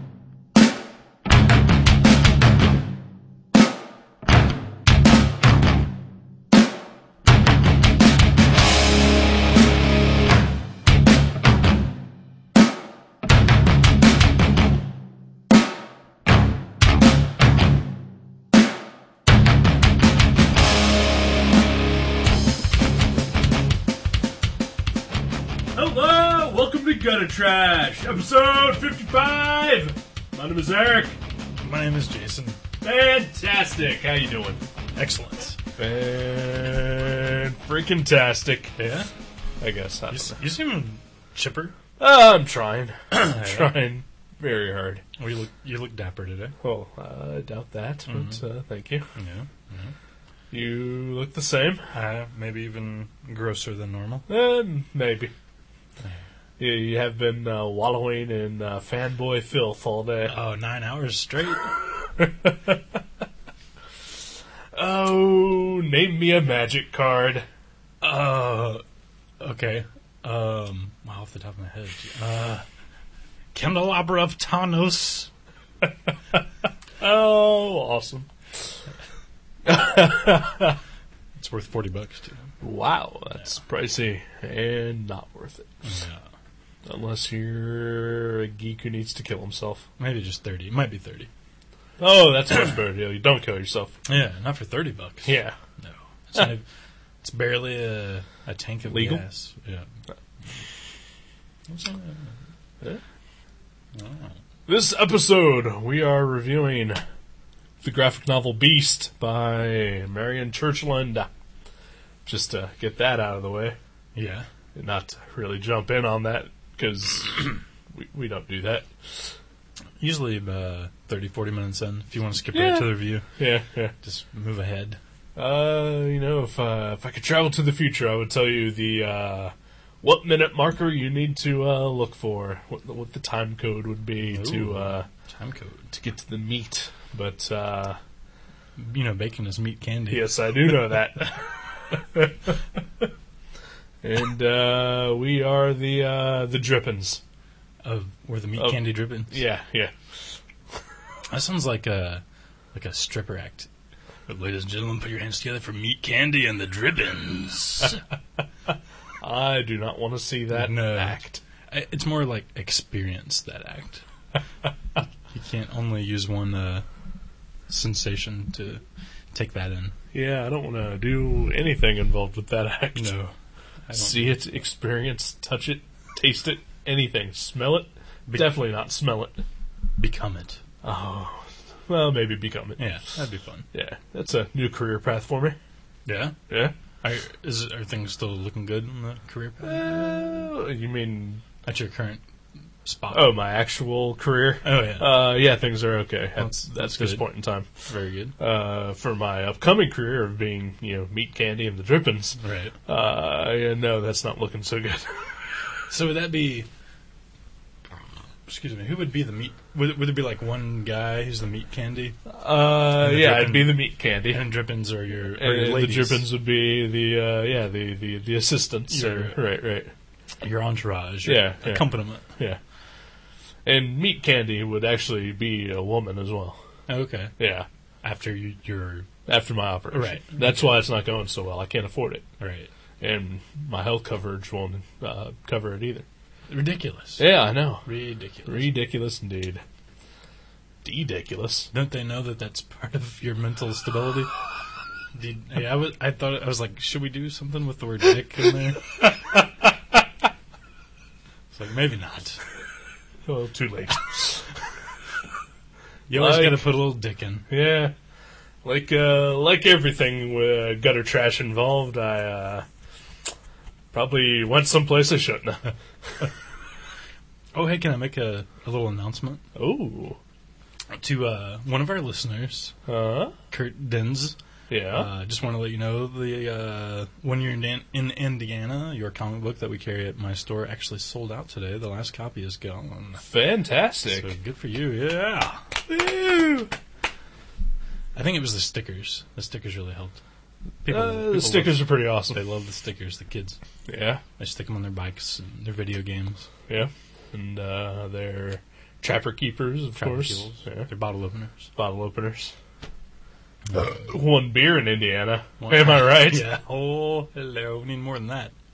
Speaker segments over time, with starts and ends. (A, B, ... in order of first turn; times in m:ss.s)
0:25.7-0:31.2 A
0:31.6-0:32.6 B
0:32.8-0:34.6 A
0:35.0-0:35.6 B
0:35.8-0:38.8 A
0:38.8-0:39.1 B
0:39.6-0:40.4 A
0:40.1-0:41.8 B
0:42.0-0:45.0 A
0:43.1-0:43.7 B
0:45.2-0:46.5 B
0:46.6-0:49.1 A
0:48.1-0:48.4 B
0:49.1-0:49.9 B
0:50.5-0:51.9 A
0:51.9-0:54.3 B
0:54.3-0:55.3 A
0:56.6-1:00.3 A
1:00.3-1:01.7 B
1:02.2-1:02.8 A
1:04.7-1:07.5 A
1:08.0-1:08.8 B
1:09.4-1:12.6 B
1:13.5-1:15.3 B
1:17.0-1:18.3 A
1:19.6-1:20.8 A
1:21.4-1:22.5 B
1:22.6-1:25.7 A
1:25.8-1:26.2 B
1:26.9-1:29.8 A
1:30.0-1:31.3 B
1:32.0-1:34.0 A
1:34.1-1:36.6 B
1:35.2-1:35.6 A
1:37.2-1:39.9 B
1:38.9-1:39.2 A
1:41.7-1:42.4 B
1:44.0-1:44.4 B
1:44.7-1:47.0 A
1:47.8-1:51.3 A
1:52.2-1:53.8 A
1:54.2-1:54.5 B
1:54.8-1:59.3 A
2:00.0-2:03.3 B
2:02.5-2:03.9 A
2:04.0-2:05.0 B
2:05.4-2:15.1 A
2:14.3-2:15.9 B
2:15.9-2:18.0 A
2:18.8-2:20.9 B
2:20.1-2:23.1 A
2:24.0-2:27.2 A
2:27.8-2:29.4 B
2:28.6-2:29.9 A
2:31.3-2:32.2 B
2:32.7-2:33.7 B
2:34.3-2:38.0 B
2:39.2-2:41.4 A
2:40.5-2:41.2 B
2:41.7-2:44.0 B
2:45.3-2:46.8 B
2:47.7-2:50.0 B
2:50.1-2:53.1 A
2:53.0-2:53.3 B
2:53.9-2:54.4 B
2:53.9-2:59.4 A
2:58.3-2:58.6 B
3:00.0-3:00.6 B
3:00.8-3:02.8 A
3:02.8-3:03.7 B
3:03.7-3:05.6 A
3:06.1-3:06.4 B
3:06.5-3:06.7 A
3:07.0-3:10.5 B
3:09.6-3:11.4 A
3:11.6-3:12.2 B
3:12.8-3:13.3 B
3:13.1-3:17.7 A
3:14.6-3:15.2 B
3:16.4-3:17.3 B
3:17.8-3:18.4 B
3:18.4-3:25.4 A
3:22.4-3:22.8 B
3:25.9-3:26.7 B
3:28.5-3:32.2 B
3:32.3-3:34.4 A
3:33.0-3:36.2 B
3:35.4-3:39.9 A
3:38.9-3:39.4 B
3:40.4-3:42.2 B
3:41.2-3:42.6 A
3:43.6-3:46.6 A
3:46.9-3:47.3 B
3:47.4-3:47.7 A
3:48.0-3:49.1 B
3:49.3-3:52.2 A
3:49.9-3:50.8 B
3:52.4-3:52.7 B
3:53.0-3:56.1 A
3:56.5-3:57.3 B
3:57.2-3:57.9 A
3:57.8-3:58.7 B
3:58.5-3:59.6 A
4:00.8-4:01.7 A
4:01.7-4:04.3 B
4:05.1-4:08.8 B
4:11.5-4:12.4 B
4:13.3-4:14.5 A
4:16.1-4:17.5 B
4:16.1-4:16.7 A
4:17.5-4:17.9 A
4:18.6-4:22.7 A
4:23.9-4:26.3 A
4:27.5-4:29.4 B
4:29.6-4:30.2 A
4:30.9-4:32.8 B
4:32.9-4:33.4 A
4:33.5-4:34.4 B
4:34.7-4:35.1 A
4:34.9-4:43.2 B
4:43.2-4:44.3 A
4:44.1-4:46.7 B
4:48.2-4:50.2 B
4:50.8-4:53.6 B
4:50.9-4:52.4 A
4:53.9-4:54.2 A
4:54.4-4:56.5 B
4:56.7-5:00.9 A
5:00.0-5:01.7 B
5:01.8-5:02.5 A
5:03.7-5:06.5 A
5:05.6-5:08.5 B